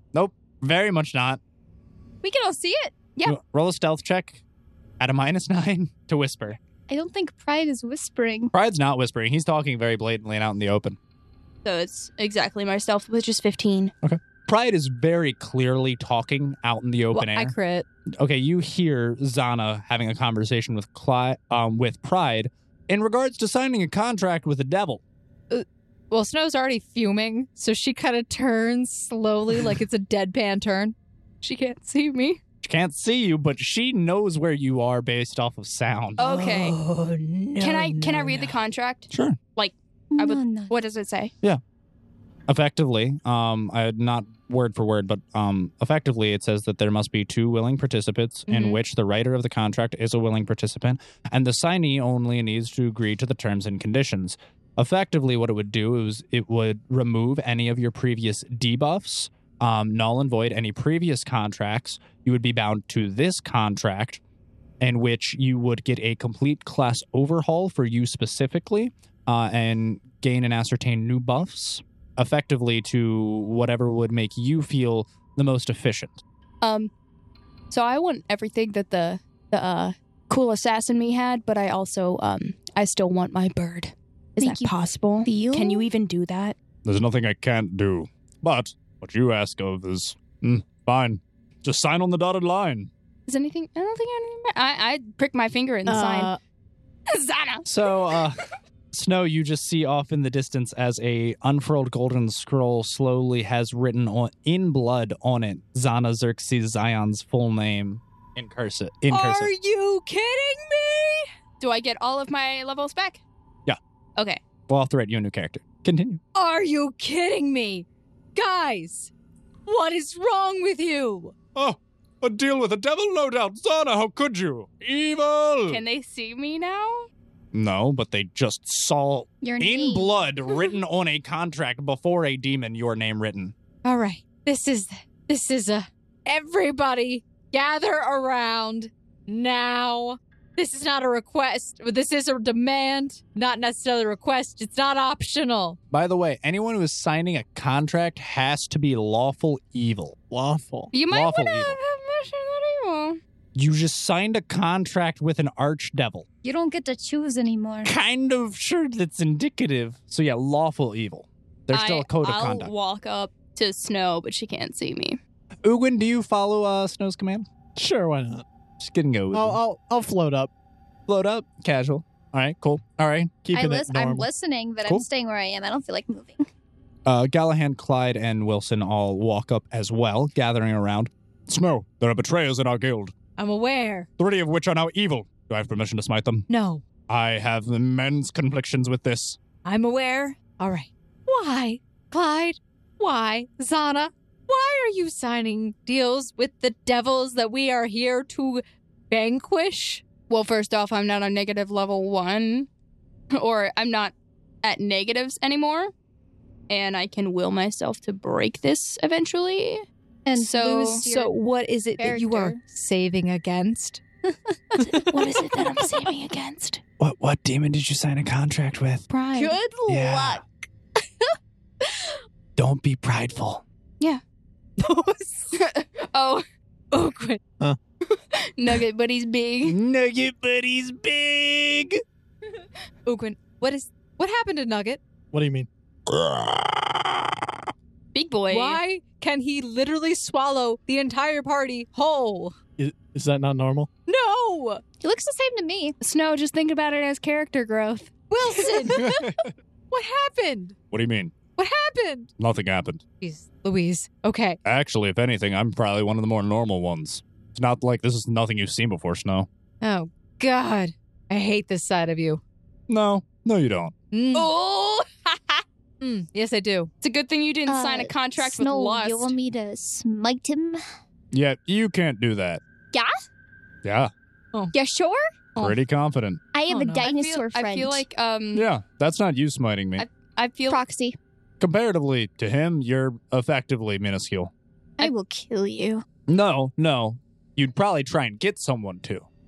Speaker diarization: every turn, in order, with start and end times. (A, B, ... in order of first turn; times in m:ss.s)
0:00.1-0:01.4 A
0:02.2-0:03.0 B
0:03.2-0:04.4 A
0:05.0-0:06.6 A
0:06.9-0:08.5 B
0:08.5-0:11.0 A
0:11.6-0:13.9 C
0:14.0-0:17.5 A
0:17.1-0:17.9 D
0:18.2-0:25.0 A
0:25.5-0:31.0 D
0:31.4-0:32.4 C
0:32.6-0:36.4 A
0:36.2-0:36.8 C
0:36.3-0:38.4 D
0:37.6-0:41.3 C
0:39.1-0:39.4 A
0:40.1-0:40.8 B
0:42.5-1:04.2 A
0:48.5-0:48.8 D
1:04.8-1:16.2 A
1:16.6-1:16.9 C
1:17.7-1:26.6 C
1:24.4-1:24.7 B
1:25.2-1:25.9 B
1:26.8-1:32.9 A
1:33.3-1:36.3 C
1:35.9-1:36.4 D
1:37.1-1:38.2 C
1:37.6-1:49.5 A
1:49.1-1:51.3 D
1:51.6-1:53.2 C
1:54.2-1:54.4 C
1:54.7-1:56.2 A
1:56.4-1:59.1 D
1:59.7-2:01.3 D
2:01.6-2:05.8 A
2:05.7-2:07.1 C
2:07.5-2:13.6 A
2:09.4-2:10.1 B
2:13.8-2:25.8 D
2:25.9-2:30.2 A
2:30.3-2:30.9 E
2:30.9-2:33.2 C
2:31.1-2:31.8 A
2:33.6-2:36.3 A
2:36.4-2:37.9 B
2:37.8-2:42.7 A
2:41.7-2:45.2 C
2:45.6-2:47.5 A
2:47.8-2:48.4 E
2:48.8-2:49.6 A
2:49.3-2:50.5 E
2:51.1-2:53.3 A
2:53.4-2:54.3 E
2:53.5-2:56.5 B
2:57.1-3:03.1 A
3:03.4-3:04.1 D
3:04.2-3:06.5 A
3:06.5-3:06.8 D
3:07.1-3:09.4 A
3:09.6-3:20.0 D
3:20.3-3:22.7 C
3:23.3-3:25.9 C
3:26.7-3:29.8 C
3:30.3-3:31.4 B
3:30.4-3:31.0 C
3:30.5-3:34.0 D
3:32.0-3:32.6 B
3:34.7-3:35.0 B
3:34.8-3:36.1 D
3:34.9-3:36.8 C
3:37.0-3:39.0 A
3:39.1-3:39.6 C
3:39.4-3:40.4 B
3:39.9-3:40.4 A
3:42.6-3:43.6 A
3:44.8-3:45.5 D
3:45.5-3:46.4 C
3:46.9-3:47.4 D
3:48.1-3:49.8 C
3:49.6-3:52.0 A
3:53.1-3:55.0 D
3:55.3-3:55.7 E
3:56.1-3:57.4 A
3:58.1-3:58.8 C
3:58.5-4:02.6 D
4:02.8-4:03.9 E
4:04.1-4:04.8 D
4:05.0-4:06.0 B
4:06.0-4:08.1 C
4:08.3-4:09.4 D
4:09.0-4:09.4 A
4:09.9-4:10.8 D
4:10.9-4:11.4 A
4:11.6-4:12.3 D
4:12.4-4:13.0 A
4:13.2-4:14.6 D
4:14.6-4:19.5 A
4:19.8-4:22.4 D
4:22.9-4:23.9 A
4:24.1-4:24.5 D
4:24.3-4:25.6 C
4:26.0-4:26.9 D
4:27.0-4:29.3 C
4:27.7-4:30.8 B
4:31.3-4:32.6 A
4:33.8-4:34.1 A
4:34.7-4:35.2 B
4:35.6-4:36.4 A
4:36.5-4:38.0 B
4:36.7-4:37.1 D
4:37.0-4:38.7 C
4:38.5-4:40.0 A
4:40.0-4:40.8 C
4:40.7-4:41.2 B
4:41.6-4:44.5 A
4:45.0-4:46.0 B
4:46.3-4:49.3 A